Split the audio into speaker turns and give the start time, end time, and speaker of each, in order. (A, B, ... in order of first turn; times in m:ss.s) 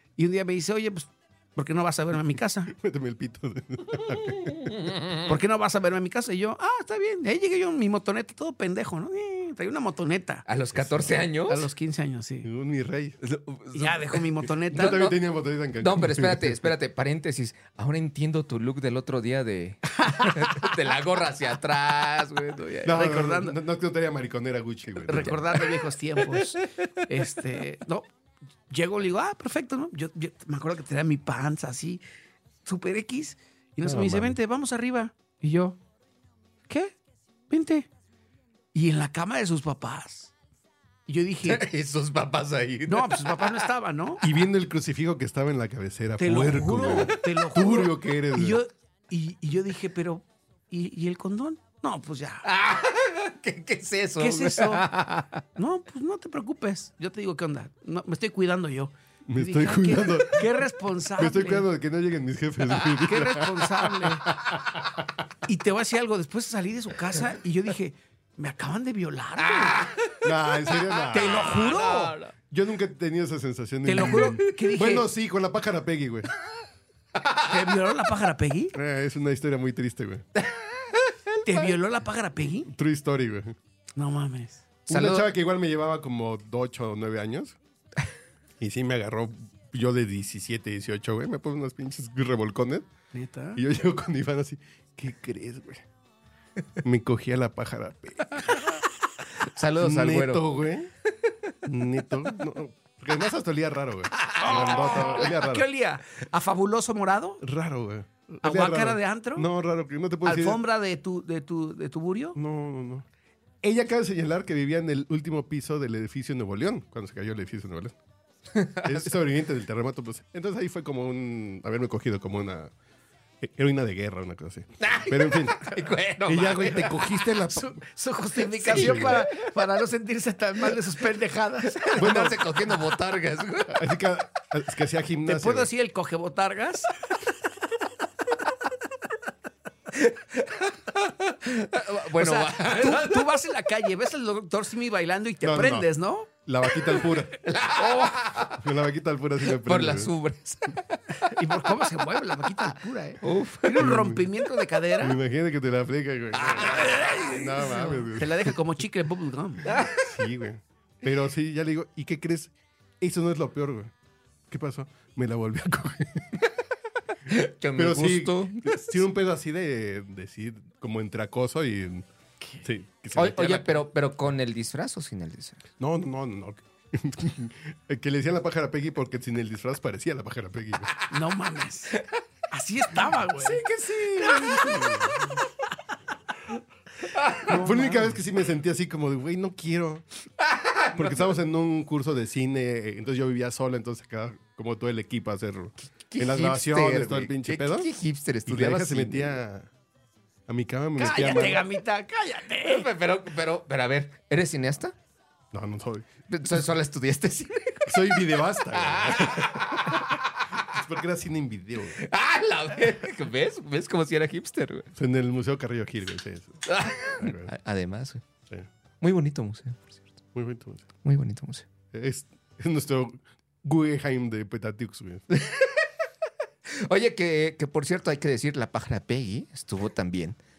0:00.2-0:02.7 A
0:02.7-0:04.7 B
0:04.6-0:05.3 C
0:05.2-0:10.4 A
0:10.5-0:11.7 C
0:10.7-0:11.2 B
0:11.4-0:12.5 A
0:12.4-0:13.4 B
0:13.5-0:14.0 C
0:13.7-0:15.1 A
0:14.7-0:16.7 B
0:14.7-0:15.2 C
0:15.8-0:23.0 C
0:22.8-0:25.4 B
0:22.9-0:23.6 A
0:25.1-0:28.1 A
0:28.7-0:32.0 A
0:32.6-0:35.8 A
0:33.8-0:34.4 B
0:36.7-0:36.9 A
0:37.5-0:37.9 A
0:38.7-0:40.3 A
0:41.1-0:41.6 A
0:41.4-0:43.6 C
0:42.9-0:44.2 A
0:44.2-0:48.6 B
0:46.2-0:52.4 A
0:52.4-0:55.4 C
0:54.2-0:54.9 A
0:55.6-1:01.7 A
0:59.3-1:00.5 B
1:01.2-1:05.0 B
1:03.0-1:04.2 A
1:05.4-1:09.8 A
1:09.4-1:12.3 C
1:10.2-1:11.5 B
1:11.1-1:12.2 A
1:12.5-1:16.3 B
1:13.8-1:15.1 A
1:14.0-1:14.4 C
1:17.2-1:17.5 C
1:17.5-1:18.7 A
1:18.7-1:20.2 B
1:20.4-1:21.6 C
1:21.4-1:22.7 A
1:22.7-1:23.6 B
1:24.0-1:24.6 A
1:24.9-1:25.3 C
1:24.9-1:27.6 B
1:28.6-1:32.9 B
1:33.1-1:33.6 A
1:33.5-1:35.8 B
1:36.8-1:38.6 B
1:39.4-1:40.5 C
1:39.8-1:40.9 B
1:41.6-1:45.7 B
1:44.2-1:45.1 C
1:44.4-1:47.4 A
1:47.4-1:50.6 B
1:48.4-1:49.5 A
1:50.2-1:52.4 A
1:52.3-1:53.0 B
1:53.6-1:58.0 B
1:58.5-1:59.0 C
1:58.8-2:02.7 B
2:03.4-2:07.8 B
2:04.8-2:07.2 C
2:07.5-2:12.2 A
2:08.6-2:09.2 B
2:08.6-2:09.3 C
2:11.8-2:13.8 C
2:12.0-2:12.4 B
2:13.7-2:15.7 B
2:15.2-2:16.9 A
2:19.9-2:23.3 C
2:22.2-2:26.3 A
2:25.4-2:27.4 B
2:27.4-2:28.6 C
2:28.6-2:30.1 B
2:29.5-2:31.3 C
2:31.3-2:35.2 A
2:33.2-2:33.9 C
2:33.8-2:34.2 B
2:35.0-2:38.5 B
2:36.4-2:37.2 C
2:36.8-2:39.7 A
2:39.6-2:40.1 C
2:40.0-2:43.9 B
2:44.5-2:46.3 B
2:47.3-2:49.0 C
2:47.8-2:52.0 B
2:52.6-2:53.9 B
2:53.1-2:55.6 C
2:55.8-3:00.9 B
3:01.1-3:01.9 A
3:02.5-3:03.6 A
3:03.4-3:05.1 C
3:03.6-3:05.3 B
3:07.1-3:07.5 C
3:07.4-3:08.2 A
3:07.5-3:10.0 B
3:10.4-3:11.3 C
3:10.9-3:17.9 B
3:16.1-3:19.4 C
3:18.4-3:19.7 B
3:20.5-3:21.6 B
3:21.0-3:22.9 A
3:21.1-3:21.6 C
3:22.6-3:24.9 C
3:25.5-3:26.1 B
3:26.3-3:30.2 C
3:27.8-3:30.1 B
3:30.7-3:32.0 B
3:32.0-3:34.9 C
3:35.0-3:37.5 B
3:36.7-3:38.2 C
3:39.0-3:40.1 C
3:40.3-3:40.8 B
3:41.0-3:41.6 C
3:41.9-3:45.2 B
3:45.4-3:45.8 C
3:46.7-3:50.4 C